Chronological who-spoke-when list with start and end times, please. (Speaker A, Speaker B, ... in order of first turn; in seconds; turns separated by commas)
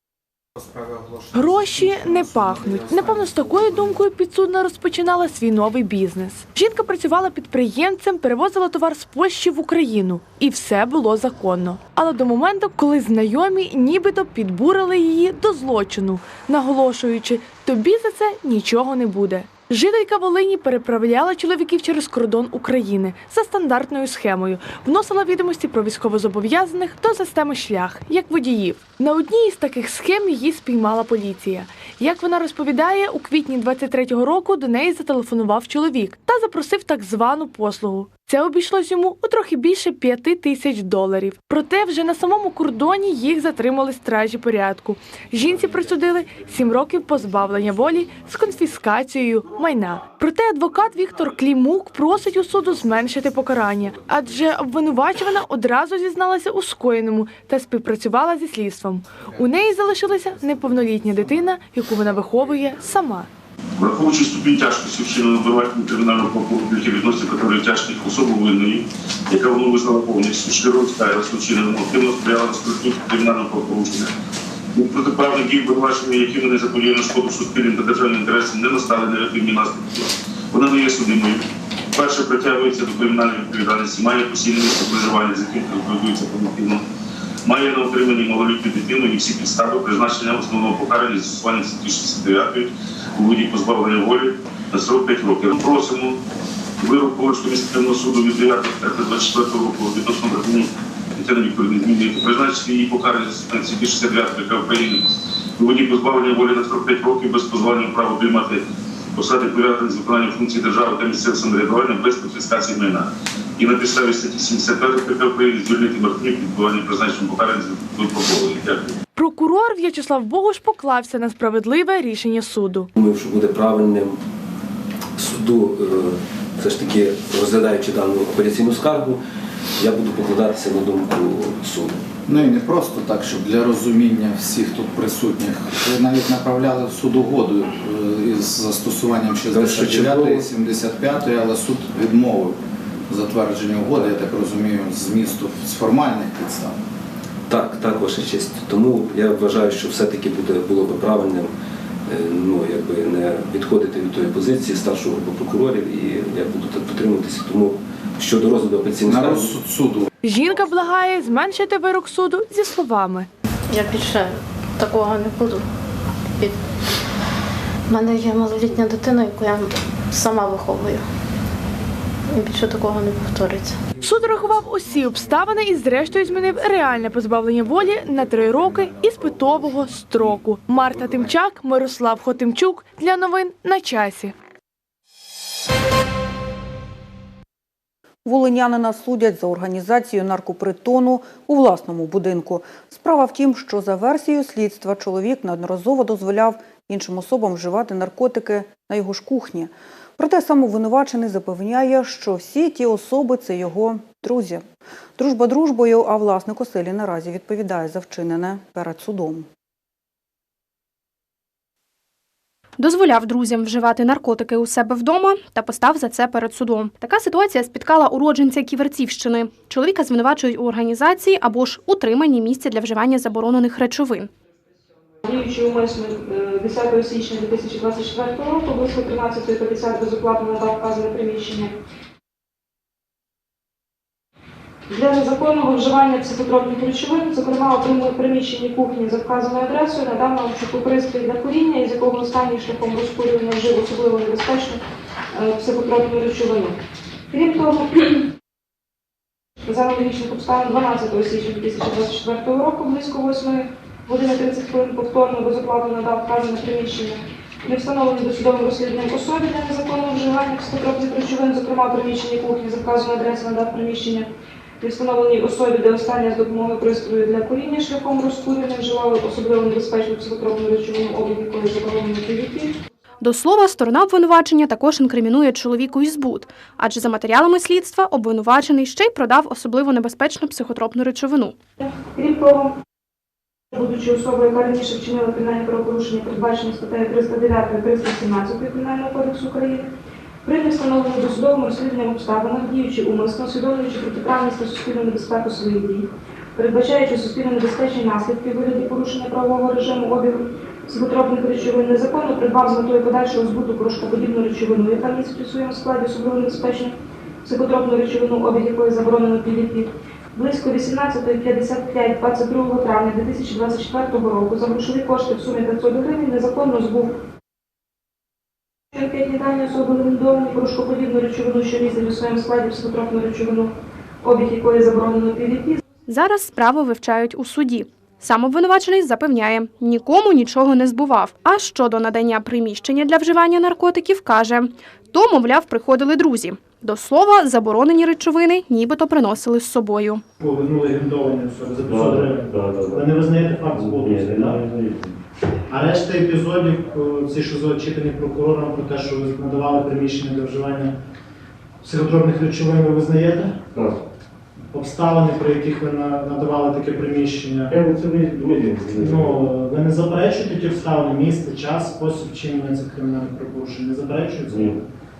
Speaker A: 1.1-1.4, Speaker B: 1.3-63.3, Speaker A: 2.4-3.3, Speaker C: 63.8-74.1, Speaker C: 74.7-86.8, Speaker C: 87.5-96.2, Speaker C: 96.8-105.0, Speaker C: 105.6-108.6, Speaker C: 109.1-119.0, Speaker B: 119.2-122.9, Speaker D: 123.0-124.2, Speaker D: 125.2-129.2, Speaker D: 129.8-132.0, Speaker E: 132.3-142.6, Speaker D: 139.5-140.5, Speaker E: 143.1-146.8, Speaker D: 147.5-151.5, Speaker D: 152.1-159.6, Speaker E: 159.1-160.1, Speaker B: 160.2-163.3, Speaker F: 163.7-165.7, Speaker F: 167.9-171.1, Speaker F: 172.3-173.8, Speaker B: 174.0-184.3, Speaker G: 188.2-204.6, Speaker G: 205.2-209.5, Speaker H: 212.8-224.3, Speaker I: 225.2-231.7, Speaker I: 234.9-244.8, Speaker I: 245.3-246.8, Speaker I: 247.3-248.2, Speaker I: 249.7-264.3, Speaker I: 264.8-272.7, Speaker H: 273.2-281.6, Speaker I: 282.1-282.7, Speaker I: 283.7-289.9, Speaker I: 290.4-317.1, Speaker I: 318.9-325.8, Speaker H: 326.1-340.2, Speaker J: 340.4-344.6, Speaker A: 341.8-345.1, Speaker J: 345.7-350.9, Speaker J: 351.8-353.6, Speaker A: 353.7-354.0, Speaker J: 354.7-364.8, Speaker A: 357.7-359.4, Speaker A: 364.5-364.8